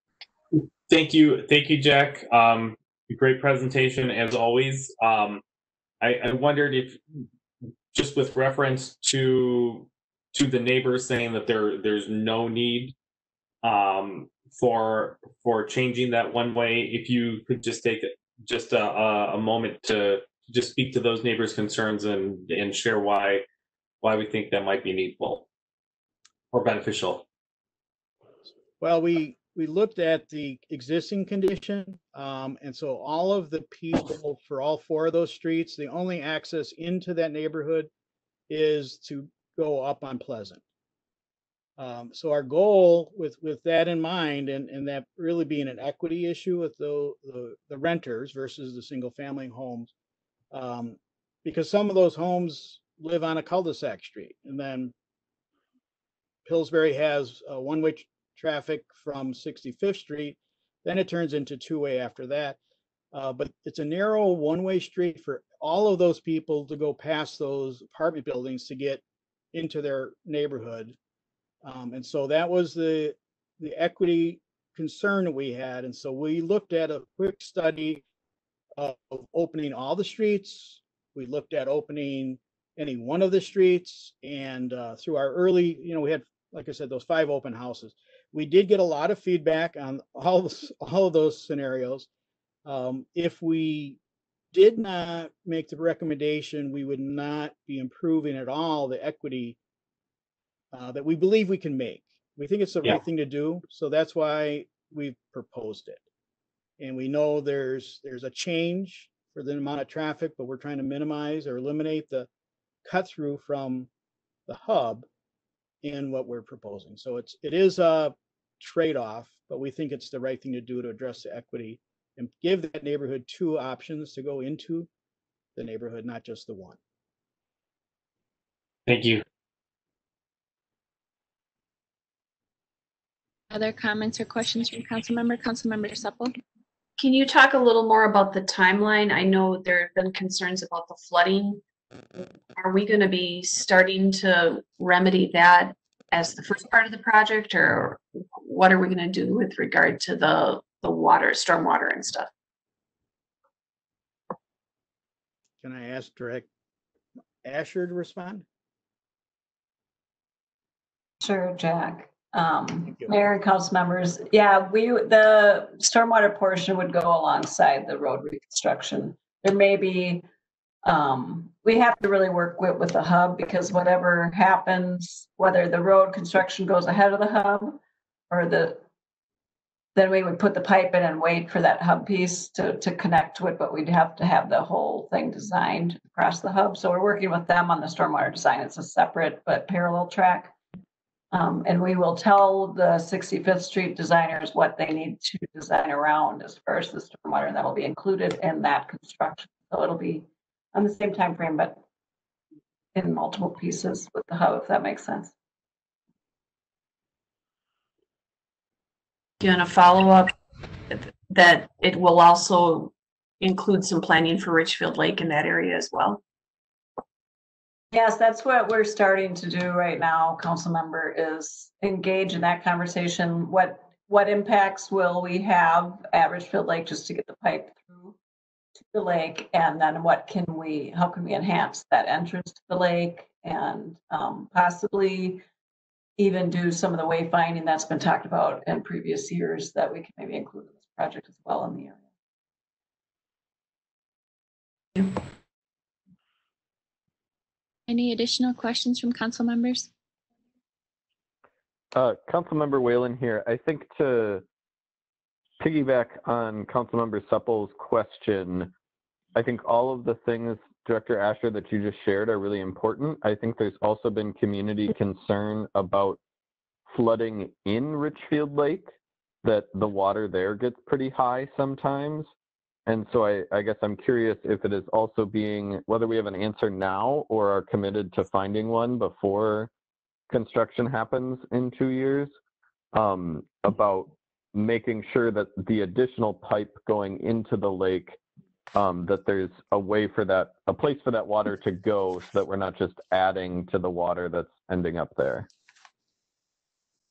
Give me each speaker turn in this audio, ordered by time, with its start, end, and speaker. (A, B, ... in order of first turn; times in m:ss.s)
0:00.5-0:05.4 A
0:06.0-0:07.0 A
0:07.9-0:12.9 A
0:13.6-0:23.4 A
0:24.0-0:25.4 A
0:26.5-0:27.2 A
0:28.8-0:37.9 B
0:38.5-0:40.6 B
0:41.8-0:49.9 B
0:50.5-0:54.9 B
0:56.4-1:02.6 B
1:03.1-1:09.0 B
1:09.5-1:11.0 B
1:11.6-1:18.0 B
1:18.8-1:32.1 B
1:32.6-1:34.0 B
1:34.5-1:39.6 B
1:40.7-1:46.0 B
1:46.8-1:52.3 B
1:52.8-1:53.9 B
1:54.5-1:55.1 B
1:55.8-2:04.9 B
2:05.6-2:06.8 B
2:08.8-2:09.2 A
2:13.5-2:16.4 C
2:17.0-2:21.6 D
2:22.6-2:32.3 D
2:35.6-2:36.5 B
2:37.4-2:38.4 B
2:41.2-2:50.2 E
2:50.8-2:57.8 E
2:58.3-2:58.8 E
3:00.0-3:10.5 E
3:11.3-3:21.8 E
3:22.9-3:25.3 E
3:29.4-3:30.3 D
3:30.9-3:36.2 D
3:37.9-3:48.1 E
3:48.8-3:55.4 E
3:56.2-4:02.0 E
4:07.9-4:09.9 C
4:11.9-4:14.4 F
4:15.6-4:18.7 F
4:19.3-4:26.2 F
4:26.9-4:28.9 F
4:29.4-4:32.3 F
4:32.9-4:39.7 F
4:40.3-4:42.3 F
4:42.9-4:48.2 F
4:48.7-4:55.5 F